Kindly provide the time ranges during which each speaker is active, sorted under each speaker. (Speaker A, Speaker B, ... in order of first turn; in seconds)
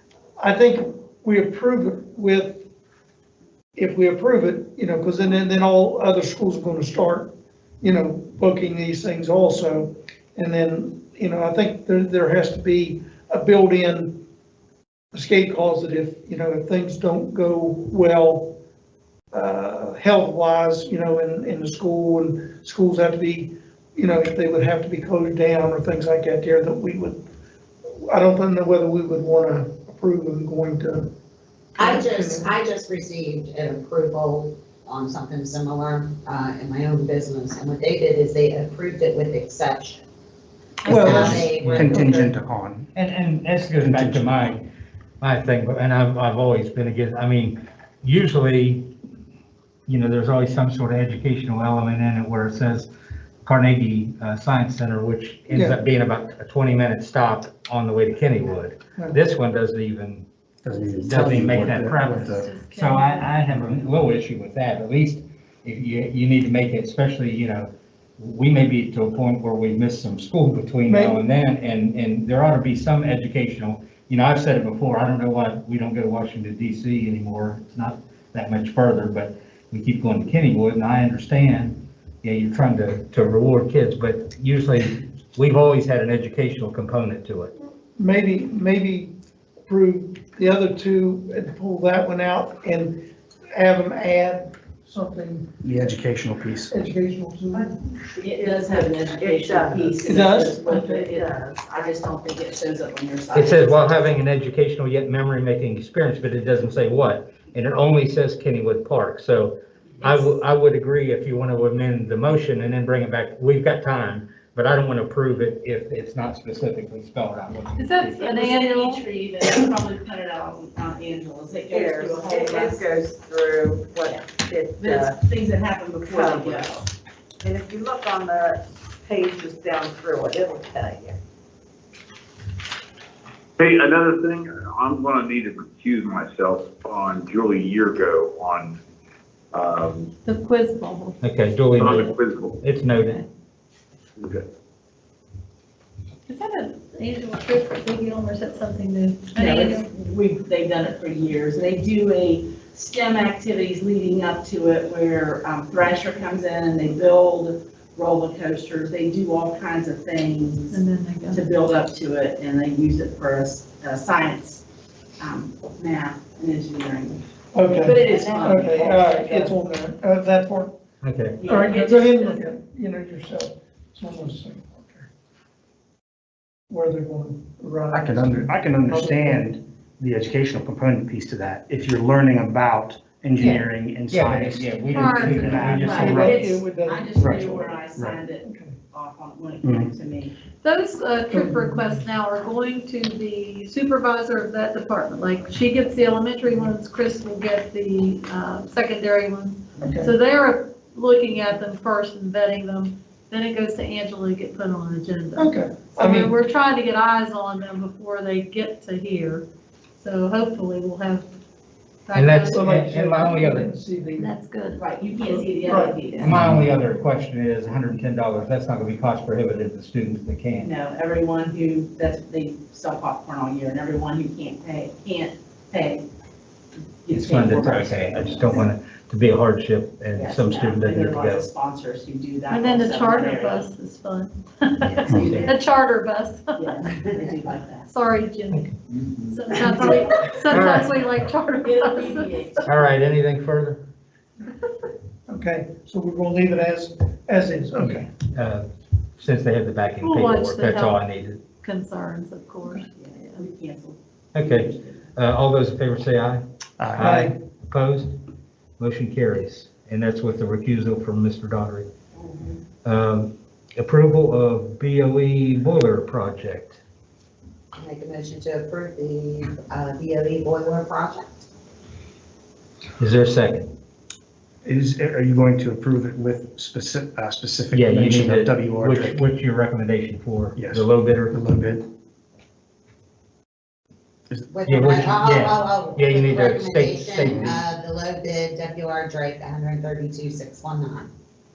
Speaker A: 0.4-2.6, 3.7-14.2, 15.1-18.6, 19.3-27.2, 28.0-31.1, 31.8-32.5, 40.8-42.2, 55.5-55.8, 70.9-71.2, 88.0-89.1, 89.7-95.5, 96.7-97.8, 100.0-101.1, 167.5-170.7, 171.4-175.1, 176.7-178.4, 184.9-188.7, 191.3-192.0, 199.8-200.1, 205.4-206.3, 212.5-214.3, 215.2-216.1, 245.3-248.1, 257.0-257.3
Speaker B: 31.8-40.0, 40.8-42.3, 267.7-271.4, 284.5-291.1
Speaker C: 41.0-42.9, 43.7-44.6, 60.6-62.5, 95.6-96.7, 177.9-186.4, 187.2-188.2, 189.6-189.9, 216.3-216.7, 235.1-235.3, 256.8-257.3, 274.6-279.2, 280.6-281.8, 287.2-287.6
Speaker D: 41.5-42.0, 42.9-44.6, 45.2-48.9, 49.9-52.9, 53.5-60.2, 61.0-87.5, 103.3-118.2, 141.2-141.9, 142.6-143.2, 171.0-171.4, 183.4-186.3, 212.1-213.7, 216.2-220.7, 227.1-231.5, 240.5-241.0, 242.7-243.8, 247.8-248.6, 249.2-251.4, 254.3-258.1, 258.8-261.9, 262.8-266.8, 273.0-273.7, 277.7-281.4, 284.6-287.6
Speaker E: 62.0-63.4, 117.8-119.0, 140.2-141.2, 143.0-143.2, 146.3-149.8, 160.7-161.4, 168.1-169.1, 185.0-186.5, 190.6-209.4, 210.0-211.3, 212.1-212.7, 213.3-214.8, 216.1-216.4, 232.5-236.8, 237.9-242.7, 250.0-253.4
Speaker F: 97.5-100.0, 101.0-101.9, 121.7-125.1, 126.1-126.7, 127.4-131.2
Speaker G: 98.2-104.0, 118.2-123.0, 124.0-126.9, 149.3-164.6, 165.2-169.5, 171.4-172.4, 185.8-190.3, 214.8-216.4, 220.6-226.0, 227.0-228.7, 230.2-233.7, 235.1-235.6, 236.6-237.9, 239.6-240.3, 241.6-242.8, 253.0-255.0, 262.1-262.6
Speaker H: 133.6-138.8, 139.5-140.1, 141.8-142.6, 144.2-144.4